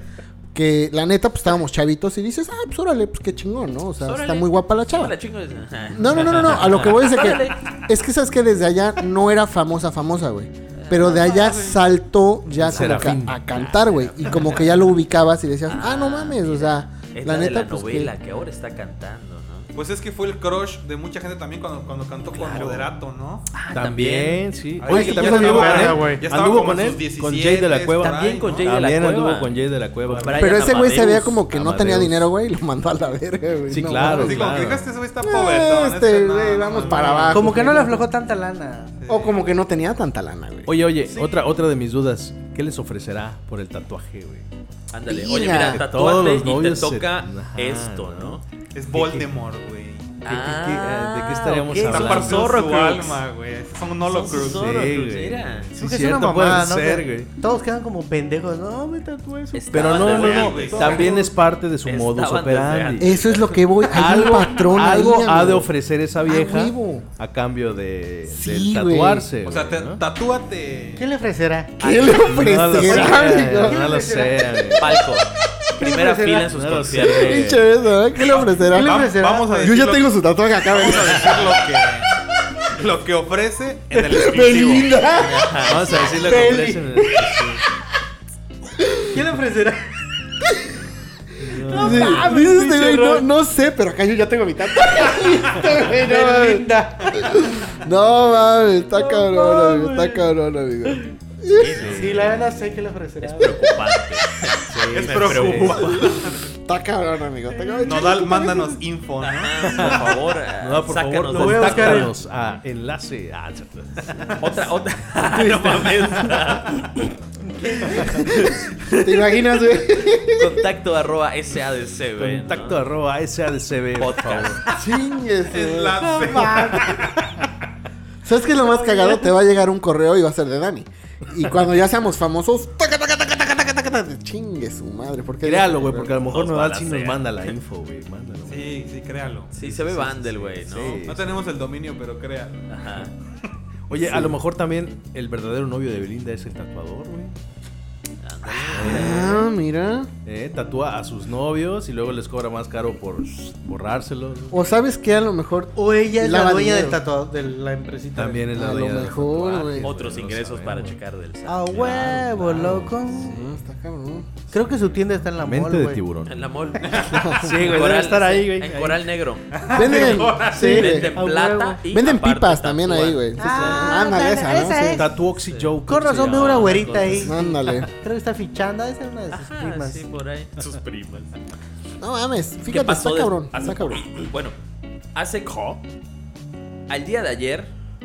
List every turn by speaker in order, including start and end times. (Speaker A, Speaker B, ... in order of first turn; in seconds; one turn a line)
Speaker A: 0.5-5.1
Speaker B: 4.0-7.7
Speaker A: 5.9-18.1
Speaker B: 10.7-11.5
Speaker C: 11.0-11.8
Speaker D: 12.6-13.4
Speaker B: 12.6-14.7
Speaker B: 15.7-19.7
Speaker C: 19.7-23.4
Speaker B: 22.3-22.9
Speaker B: 23.5-24.4
Speaker D: 23.7-32.3
Speaker C: 24.8-28.8
Speaker E: 24.9-26.2
Speaker A: 25.1-25.8
Speaker B: 28.0-29.5
Speaker C: 30.1-30.4
Speaker B: 30.1-31.4
Speaker A: 30.4-34.5
Speaker D: 33.7-34.9
Speaker C: 34.1-37.4
Speaker A: 35.2-38.0
Speaker D: 36.9-37.5
Speaker E: 37.3-39.0
Speaker C: 39.0-39.4
Speaker A: 39.1-40.7
Speaker D: 40.7-44.4
Speaker B: 44.9-48.4
Speaker A: 45.0-45.8
Speaker D: 45.4-49.3
Speaker C: 48.7-50.1
Speaker D: 50.2-52.5
Speaker B: 50.2-53.2
Speaker C: 51.8-54.7
Speaker B: 54.0-55.7
Speaker D: 54.3-57.3
Speaker E: 55.8-61.3
Speaker B: 59.5-61.2
Speaker D: 59.7-70.0
Speaker C: 59.9-61.1
Speaker B: 61.8-63.6
Speaker A: 63.0-65.7
Speaker A: 66.2-67.1
Speaker A: 68.3-69.3
Speaker C: 69.4-71.1
Speaker E: 71.0-71.8
Speaker A: 71.8-73.9
Speaker B: 71.8-73.1
Speaker D: 72.3-75.0
Speaker E: 72.8-75.0
Speaker B: 74.8-77.5
Speaker E: 75.8-76.5
Speaker D: 76.5-77.6
Speaker A: 77.0-81.5
Speaker C: 78.3-80.1
Speaker E: 78.7-79.7
Speaker C: 80.7-82.1
Speaker C: 82.7-85.0
Speaker A: 83.9-85.6
Speaker B: 85.2-86.3
Speaker D: 85.6-87.6
Speaker E: 86.2-87.0
Speaker A: 88.8-89.2
Speaker E: 89.1-89.8
Speaker A: 90.5-90.8
Speaker D: 91.4-93.2
Speaker A: 91.7-101.9
Speaker E: 91.7-92.4
Speaker E: 95.7-97.4
Speaker E: 99.0-100.2
Speaker B: 101.5-102.3
Speaker D: 101.7-102.4
Speaker E: 102.0-103.8
Speaker B: 103.2-106.1
Speaker D: 104.7-106.0
Speaker C: 104.9-106.3
Speaker A: 106.6-108.8
Speaker C: 107.8-109.9
Speaker B: 109.2-112.1
Speaker D: 109.7-114.2
Speaker E: 111.3-112.1
Speaker B: 114.4-116.9
Speaker A: 115.3-116.2
Speaker E: 117.5-118.3
Speaker A: 118.1-120.6
Speaker B: 120.3-122.8
Speaker D: 122.2-124.6
Speaker B: 124.0-124.6
Speaker A: 124.7-126.8
Speaker C: 125.5-127.3
Speaker E: 126.2-127.0
Speaker A: 128.2-136.1
Speaker E: 128.6-129.4
Speaker D: 135.4-138.7
Speaker B: 136.3-137.2
Speaker C: 138.4-139.6
Speaker B: 139.5-141.1
Speaker D: 139.6-141.3
Speaker C: 141.1-142.8
Speaker B: 142.7-143.1
Speaker D: 143.9-147.3
Speaker A: 144.0-144.4
Speaker B: 148.2-149.4
Speaker D: 148.7-149.3
Speaker A: 148.8-150.1
Speaker D: 150.2-154.6
Speaker A: 154.5-157.0
Speaker E: 155.8-158.5
Speaker D: 158.1-161.0
Speaker A: 158.5-159.9
Speaker B: 159.8-162.3
Speaker E: 161.4-163.4
Speaker D: 161.8-162.9
Speaker A: 163.2-164.4
Speaker E: 164.5-166.0
Speaker D: 165.4-166.3
Speaker B: 166.2-170.0
Speaker C: 166.8-167.2
Speaker A: 167.1-167.5
Speaker D: 167.2-169.1
Speaker C: 169.5-170.6
Speaker A: 169.7-171.1
Speaker E: 170.5-171.8
Speaker B: 170.6-173.8
Speaker A: 171.9-175.0
Speaker E: 173.4-175.1
Speaker D: 174.8-177.1
Speaker B: 175.3-177.3
Speaker E: 175.8-180.1
Speaker A: 177.2-177.9
Speaker B: 179.3-181.3
Speaker A: 182.0-184.1
Speaker B: 182.7-184.6
Speaker B: 185.1-185.8
Speaker B: 186.9-187.7